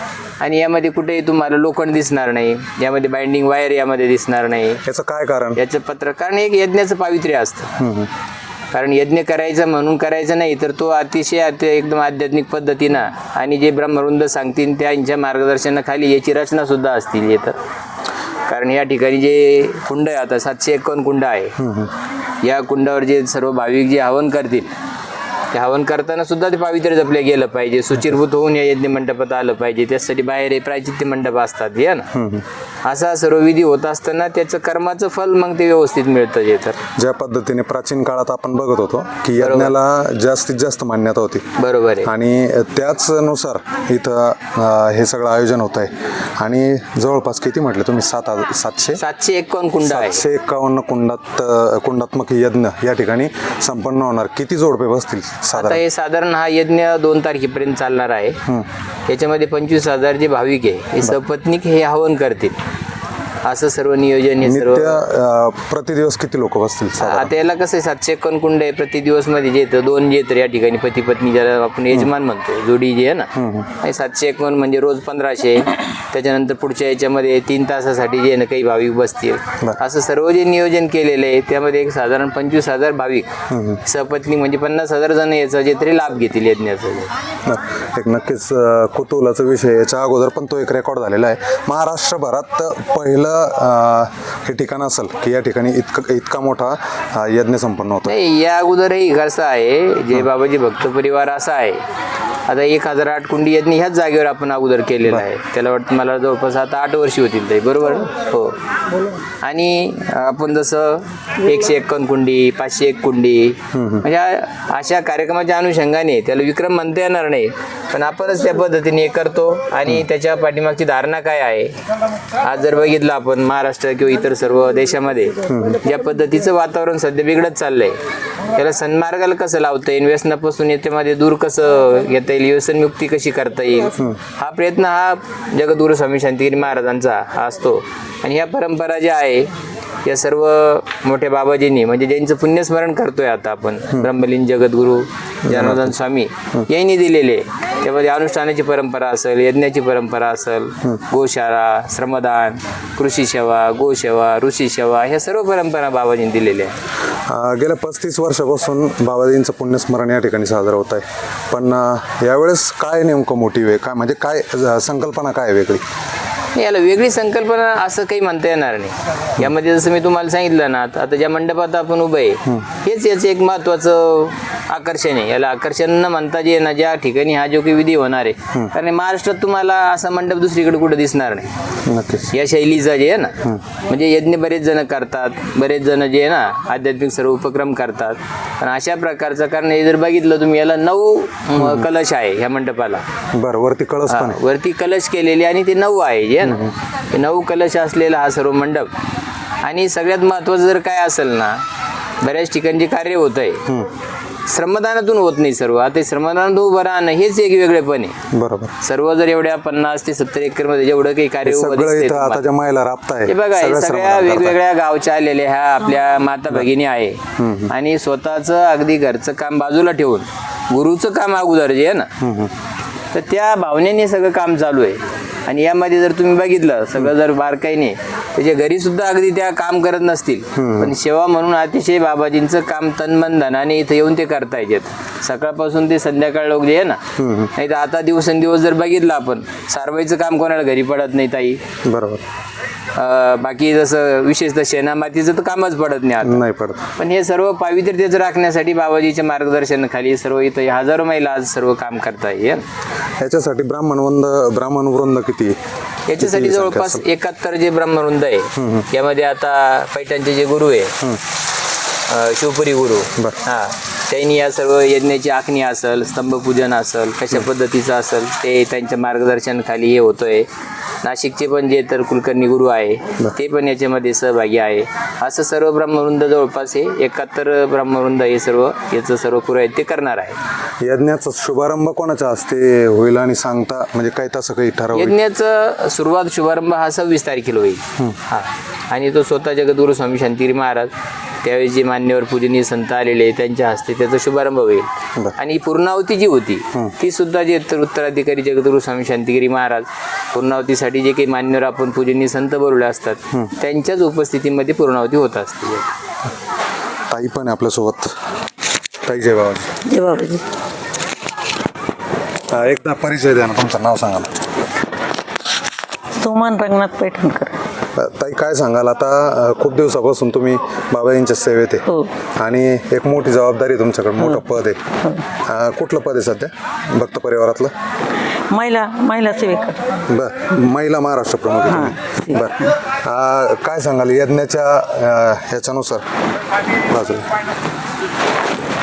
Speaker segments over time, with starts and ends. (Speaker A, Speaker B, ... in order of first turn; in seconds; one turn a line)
Speaker A: 0.4-4.8
Speaker B: 4.8-5.6
Speaker A: 5.6-7.7
Speaker B: 7.8-8.1
Speaker A: 8.7-17.6
Speaker A: 18.5-21.6
Speaker B: 21.6-21.9
Speaker A: 22.4-24.7
Speaker A: 25.5-32.1
Speaker B: 32.1-32.4
Speaker A: 32.9-36.8
Speaker B: 37.0-41.5
Speaker A: 39.4-39.7
Speaker A: 41.6-42.1
Speaker B: 42.0-49.0
Speaker A: 49.0-50.2
Speaker B: 49.8-55.8
Speaker A: 55.5-58.4
Speaker A: 59.1-62.6
Speaker A: 63.4-65.0
Speaker B: 64.4-67.3
Speaker A: 67.0-73.3
Speaker B: 73.3-73.7
Speaker A: 73.8-83.3
Speaker B: 83.5-83.8
Speaker A: 83.8-87.1
Speaker B: 87.4-98.1
Speaker A: 98.1-101.8
Speaker A: 102.5-108.6
Speaker A: 109.4-121.7
Speaker B: 113.7-114.1
Speaker A: 122.4-128.0
Speaker B: 125.5-125.8
Speaker A: 128.6-139.5
Speaker A: 140.1-156.8
Speaker B: 145.5-145.9
Speaker B: 157.3-165.8
Speaker A: 166.6-181.5
Speaker B: 181.9-182.3
Speaker A: 182.3-183.3
Speaker A: 183.9-193.0
Speaker B: 191.6-191.9
Speaker B: 193.3-194.4
Speaker A: 194.1-198.9
Speaker B: 196.4-196.7
Speaker A: 199.6-201.6
Speaker A: 202.2-203.6
Speaker A: 204.5-208.1
Speaker B: 208.3-208.7
Speaker A: 208.8-212.4
Speaker B: 211.4-214.6
Speaker A: 213.3-222.1
Speaker B: 217.4-217.7
Speaker B: 222.2-222.5
Speaker A: 223.1-237.0
Speaker B: 230.6-230.9
Speaker B: 237.2-237.5
Speaker A: 237.6-241.6
Speaker B: 241.8-242.2
Speaker A: 242.9-246.4
Speaker B: 246.2-246.9
Speaker A: 247.0-252.6
Speaker B: 253.2-255.6
Speaker A: 256.1-260.9
Speaker B: 256.2-257.0
Speaker B: 258.6-258.9
Speaker A: 262.1-270.5
Speaker A: 271.0-280.4
Speaker B: 280.8-285.2
Speaker A: 284.9-290.9
Speaker A: 291.4-305.9
Speaker B: 307.1-308.1
Speaker B: 309.0-309.7
Speaker C: 309.9-310.4
Speaker B: 312.5-314.3
Speaker C: 316.2-317.6
Speaker B: 317.9-321.8
Speaker B: 322.4-324.8
Speaker B: 325.4-327.7
Speaker C: 328.5-329.8
Speaker B: 330.1-336.1
Speaker C: 331.7-332.7
Speaker B: 336.8-337.3